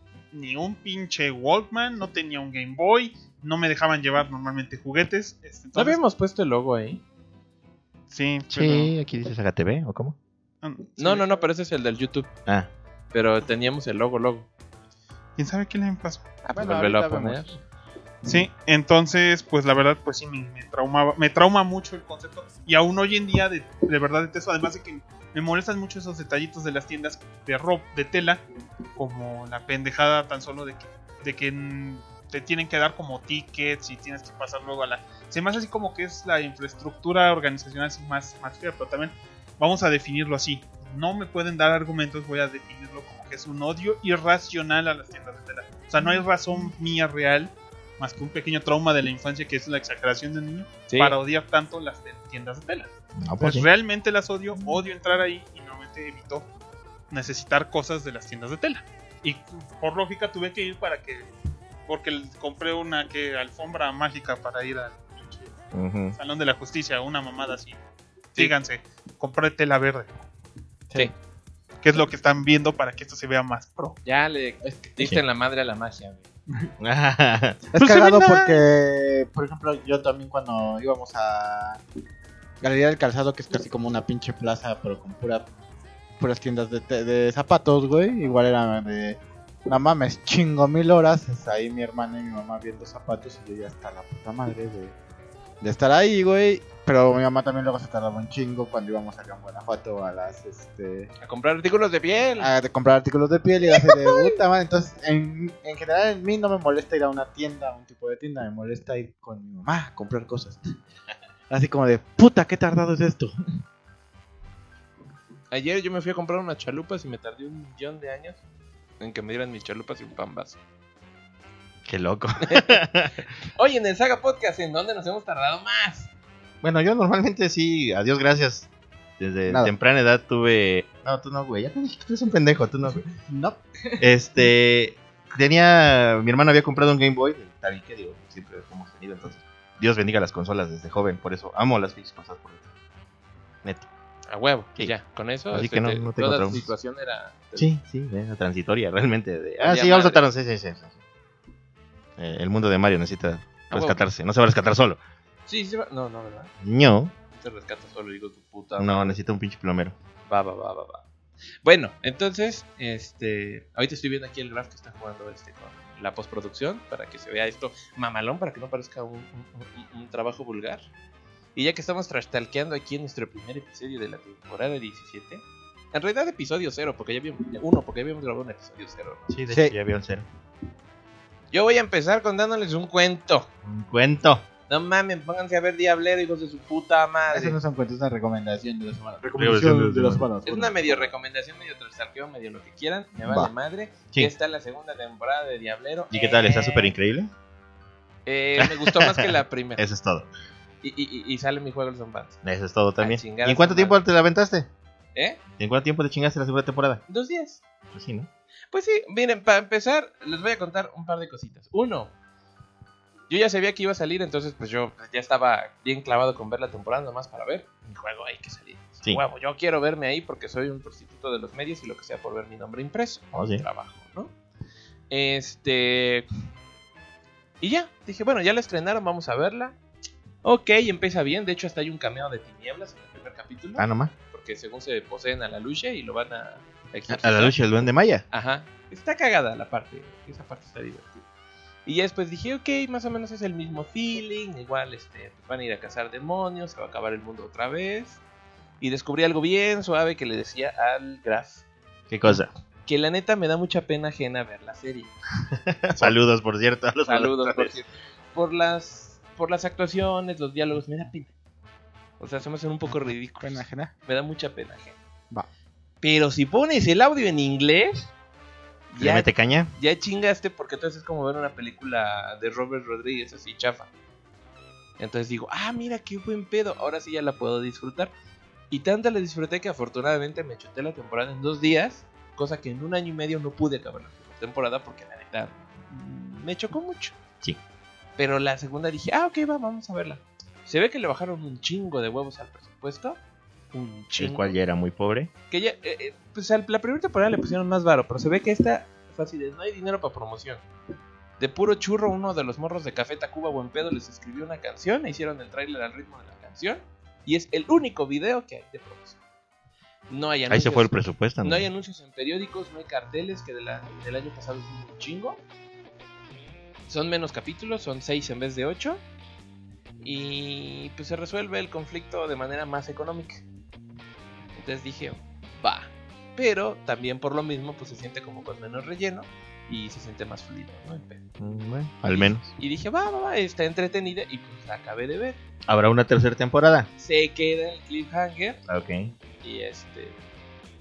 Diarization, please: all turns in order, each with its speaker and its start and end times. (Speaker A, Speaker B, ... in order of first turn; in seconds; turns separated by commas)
Speaker A: 0.3-6.0, Speaker B: 5.8-7.0, Speaker A: 8.1-8.9, Speaker C: 8.5-10.2, Speaker A: 10.6-11.3, Speaker B: 11.0-12.3, Speaker B: 13.1-14.5, Speaker A: 15.4-16.3, Speaker B: 16.4-17.5, Speaker D: 16.5-17.5, Speaker A: 18.2-28.4, Speaker A: 29.0-56.5, Speaker B: 50.9-51.2, Speaker C: 53.2-53.7, Speaker A: 57.1-61.3, Speaker A: 61.9-65.5, Speaker C: 65.7-66.2, Speaker A: 66.2-67.8, Speaker A: 68.3-70.1, Speaker A: 71.8-74.0, Speaker B: 74.0-76.2, Speaker D: 74.6-74.9, Speaker C: 76.8-77.6, Speaker D: 77.7-81.8, Speaker A: 77.8-78.6, Speaker D: 82.6-85.5, Speaker D: 86.2-95.0, Speaker D: 95.6-101.1, Speaker B: 101.2-102.5, Speaker D: 102.4-110.6, Speaker D: 111.5-113.4, Speaker B: 115.5-118.4, Speaker B: 119.0-120.6, Speaker C: 121.9-123.2, Speaker B: 122.4-122.8, Speaker B: 123.6-126.1, Speaker C: 126.6-133.1, Speaker D: 129.5-129.7, Speaker D: 133.2-134.1, Speaker C: 134.0-142.7, Speaker B: 144.3-147.7, Speaker C: 145.5-146.7, Speaker C: 147.6-151.0, Speaker B: 149.6-150.2, Speaker C: 152.2-155.0, Speaker B: 153.7-154.0, Speaker B: 155.5-156.5, Speaker C: 156.6-157.1, Speaker B: 157.3-159.2, Speaker C: 158.8-160.0, Speaker B: 160.3-161.0, Speaker B: 161.6-170.9, Speaker B: 171.6-179.3, Speaker C: 179.3-180.3, Speaker B: 181.5-183.5, Speaker C: 183.6-184.4, Speaker B: 184.7-187.6, Speaker D: 187.3-191.1, Speaker C: 189.4-190.2, Speaker B: 190.4-196.9, Speaker C: 196.1-197.3, Speaker B: 198.3-199.8, Speaker C: 198.6-199.2, Speaker C: 199.8-200.3, Speaker B: 200.8-202.4, Speaker C: 202.4-204.7, Speaker B: 203.0-204.0, Speaker C: 205.6-207.0, Speaker B: 207.1-207.6, Speaker C: 207.9-208.3, Speaker B: 208.7-212.1, Speaker B: 213.3-224.3, Speaker C: 223.3-223.7, Speaker B: 225.1-226.3, Speaker B: 227.6-229.8, Speaker B: 230.4-241.2, Speaker C: 233.8-234.1, Speaker C: 237.1-238.2, Speaker B: 241.8-248.2, Speaker B: 248.8-251.7, Speaker C: 252.1-252.5, Speaker B: 252.3-255.1, Speaker C: 255.5-257.8, Speaker B: 257.0-261.3, Speaker B: 262.2-265.0, Speaker D: 263.4-263.9, Speaker B: 266.0-268.1, Speaker B: 268.9-273.9, Speaker C: 269.0-269.7, Speaker B: 275.0-278.1, Speaker B: 278.7-287.1, Speaker B: 288.2-293.2, Speaker B: 293.7-294.6, Speaker C: 294.2-295.3, Speaker B: 295.5-300.6, Speaker B: 301.4-309.2, Speaker B: 310.1-315.4, Speaker C: 310.5-311.7, Speaker B: 316.9-319.0, Speaker B: 320.0-323.4, Speaker B: 324.6-331.2, Speaker C: 331.4-332.5, Speaker B: 332.1-335.4, Speaker C: 335.7-336.9, Speaker B: 337.0-338.6, Speaker C: 338.7-339.1, Speaker B: 339.4-340.2